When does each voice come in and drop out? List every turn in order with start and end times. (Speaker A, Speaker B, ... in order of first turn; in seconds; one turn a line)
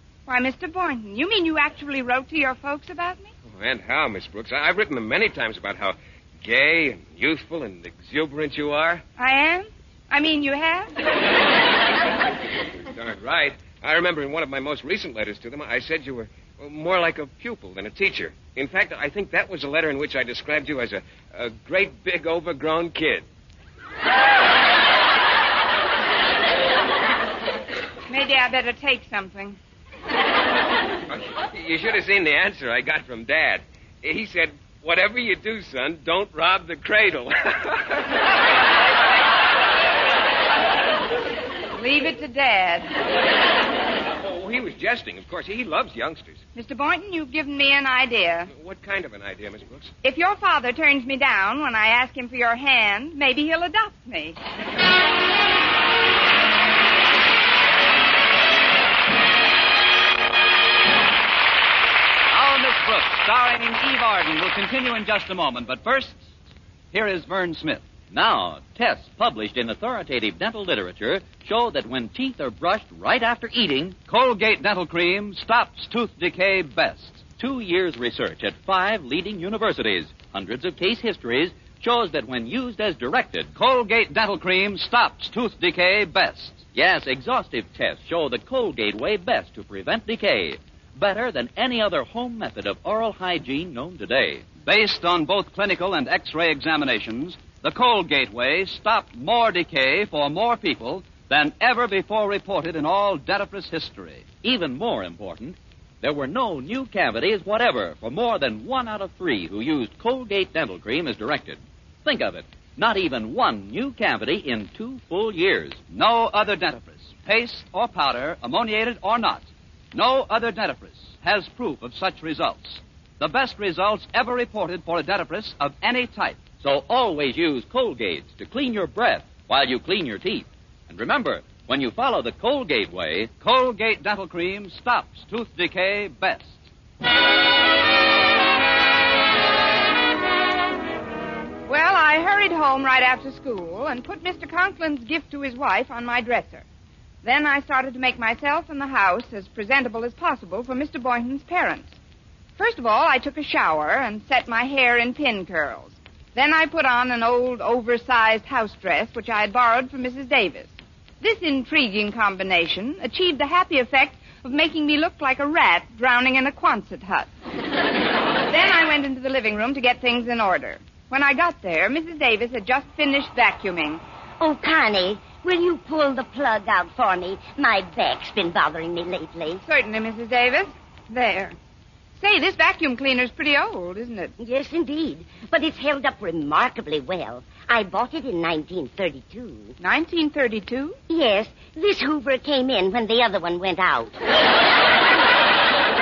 Speaker A: 0.3-3.3
Speaker B: 3.5-9.0
Speaker A: 9.2-10.9
Speaker B: 12.8-23.2
Speaker A: 28.1-29.6
Speaker B: 31.1-38.0
Speaker A: 41.8-42.9
Speaker B: 44.2-46.4
Speaker A: 46.5-48.5
Speaker B: 48.5-49.9
Speaker A: 50.0-54.4
Speaker C: 62.3-66.3
Speaker C: 66.9-67.9
Speaker D: 68.1-74.0
Speaker C: 74.0-77.3
Speaker D: 77.3-83.5
Speaker C: 83.5-86.7
Speaker D: 86.7-94.5
Speaker C: 94.5-104.4
Speaker D: 104.4-115.8
Speaker C: 115.9-126.5
Speaker D: 126.6-133.3
Speaker C: 133.4-136.6
Speaker A: 141.7-146.6
Speaker A: 147.2-151.9
Speaker A: 152.6-167.3
Speaker A: 168.5-174.0
Speaker E: 174.4-179.6
Speaker A: 179.6-181.6
Speaker A: 182.2-184.3
Speaker E: 184.4-189.7
Speaker A: 189.8-191.0
Speaker E: 191.1-194.1